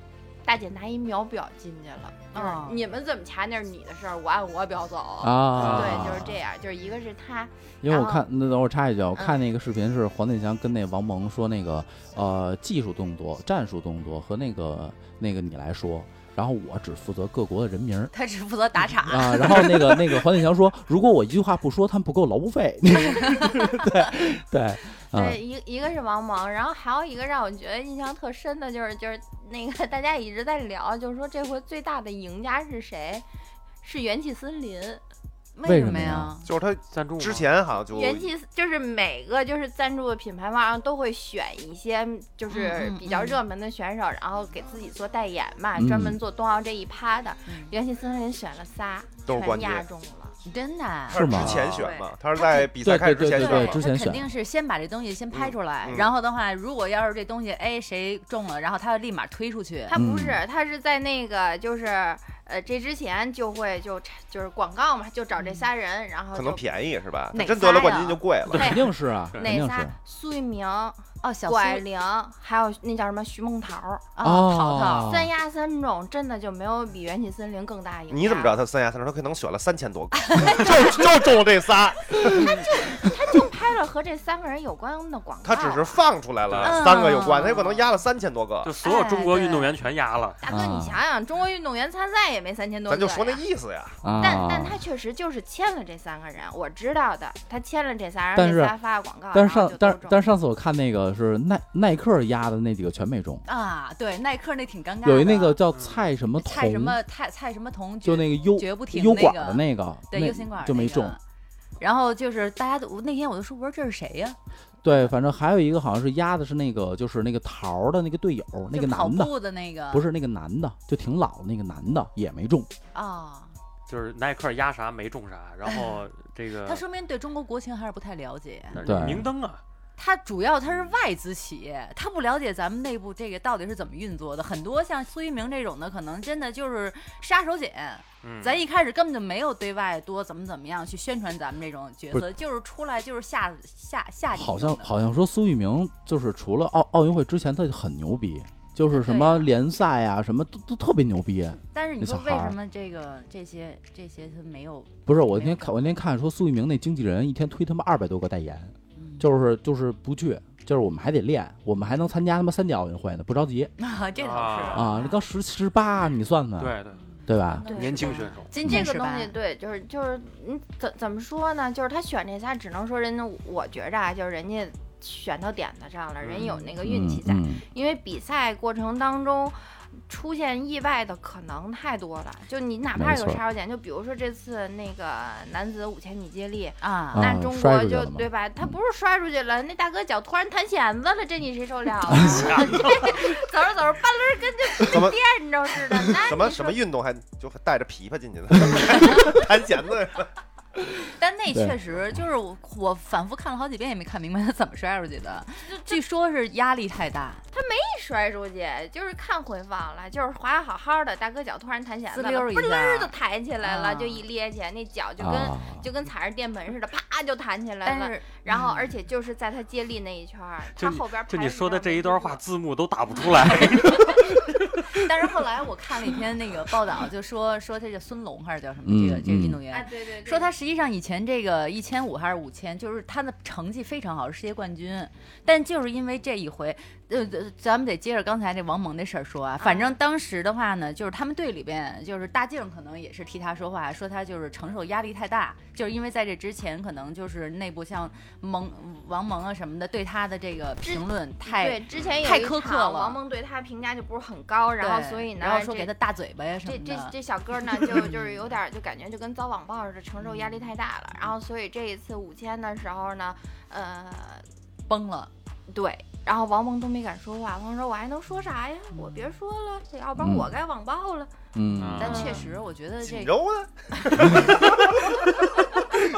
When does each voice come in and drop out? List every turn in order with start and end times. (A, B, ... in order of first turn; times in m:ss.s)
0:00.4-0:08.2 A
0:02.3-0:02.8 B
0:05.2-0:06.4 C
0:05.5-0:06.2 D
0:07.8-0:18.1 C
0:18.1-0:20.0 B
0:19.0-0:25.4 C
0:23.2-0:23.7 B
0:25.1-0:33.2 A
0:33.8-0:35.0 A
0:35.6-0:36.5 B
0:35.6-0:36.3 C
0:36.4-0:38.3 E
0:36.9-0:37.5 D
0:37.9-0:50.4 A
0:42.5-0:43.4 B
0:45.8-0:46.2 C
0:47.5-0:47.7 B
0:49.2-0:49.9 E
0:50.4-0:51.3 B
0:51.1-0:51.6 C
0:51.1-0:53.8 E
0:51.3-0:51.8 D
0:51.6-0:52.1 A
0:52.6-0:54.3 C
0:53.3-1:00.0 B
0:55.3-0:56.1 E
0:59.9-1:06.6 A
0:59.9-1:00.4 C
1:05.4-1:05.7 B
1:06.3-1:08.7 E
1:07.3-1:08.2 B
1:07.4-1:14.1 A
1:08.5-1:09.9 C
1:11.2-1:11.8 B
1:14.2-1:15.2 B
1:14.2-1:15.3 C
1:15.0-1:18.6 A
1:18.1-1:22.5 E
1:20.1-1:21.0 B
1:22.2-1:26.0 A
1:25.4-1:28.7 E
1:26.5-1:26.8 D
1:26.6-1:27.8 B
1:28.6-1:30.4 D
1:28.8-1:29.4 B
1:29.1-1:29.7 A
1:30.4-1:33.4 A
1:30.5-1:31.0 C
1:32.9-1:34.0 E
1:34.0-1:34.8 C
1:34.2-1:40.2 A
1:38.3-1:38.8 C
1:39.3-1:43.4 C
1:43.4-1:45.6 B
1:45.0-1:47.0 C
1:45.7-1:46.0 D
1:46.4-1:51.2 B
1:48.0-1:51.2 C
1:51.8-1:54.4 B
1:54.8-1:59.3 C
1:58.7-2:00.0 B
1:59.9-2:02.7 C
2:02.9-2:03.5 B
2:03.9-2:06.8 D
2:06.6-2:08.8 B
2:08.7-2:09.6 D
2:08.8-2:09.3 C
2:10.0-2:24.9 B
2:18.2-2:18.6 D
2:24.3-2:32.6 C
2:28.8-2:29.5 B
2:31.6-2:35.8 B
2:35.0-2:43.7 C
2:39.0-2:39.3 B
2:43.8-2:45.2 B
2:44.2-2:44.9 D
2:44.7-2:46.7 C
2:46.6-2:47.0 D
2:47.3-2:47.7 C
2:47.6-2:49.3 B
2:47.6-3:16.8 A
2:47.7-2:48.5 D
2:56.2-2:56.5 D
2:56.4-2:56.7 B
2:56.8-2:57.6 C
3:02.9-3:03.4 C
3:06.8-3:07.3 B
3:07.1-3:08.7 C
3:12.1-3:12.6 C
3:12.2-3:12.9 D
3:14.8-3:15.2 E
3:16.2-3:20.3 E
3:21.0-3:27.4 B
3:25.7-3:26.0 A
3:27.5-3:42.4 A
3:32.1-3:34.2 B
3:35.2-3:35.8 C
3:37.8-3:38.9 B
3:40.7-3:44.9 D
3:43.8-3:44.2 B
3:44.9-4:13.2 B
3:48.8-3:49.6 C
3:49.7-3:50.5 A
3:59.6-4:00.0 A
4:10.9-4:15.9 A
4:11.9-4:12.3 D
4:14.8-4:17.2 B
4:16.6-4:24.4 A
4:17.7-4:18.5 B
4:20.2-4:20.7 B
4:24.9-4:25.3 B
4:25.7-4:31.3 A
4:30.2-4:30.5 C
4:31.5-4:32.3 C
4:31.8-4:32.4 D
4:32.0-4:33.4 B
4:32.0-4:32.4 A
4:33.0-4:35.0 E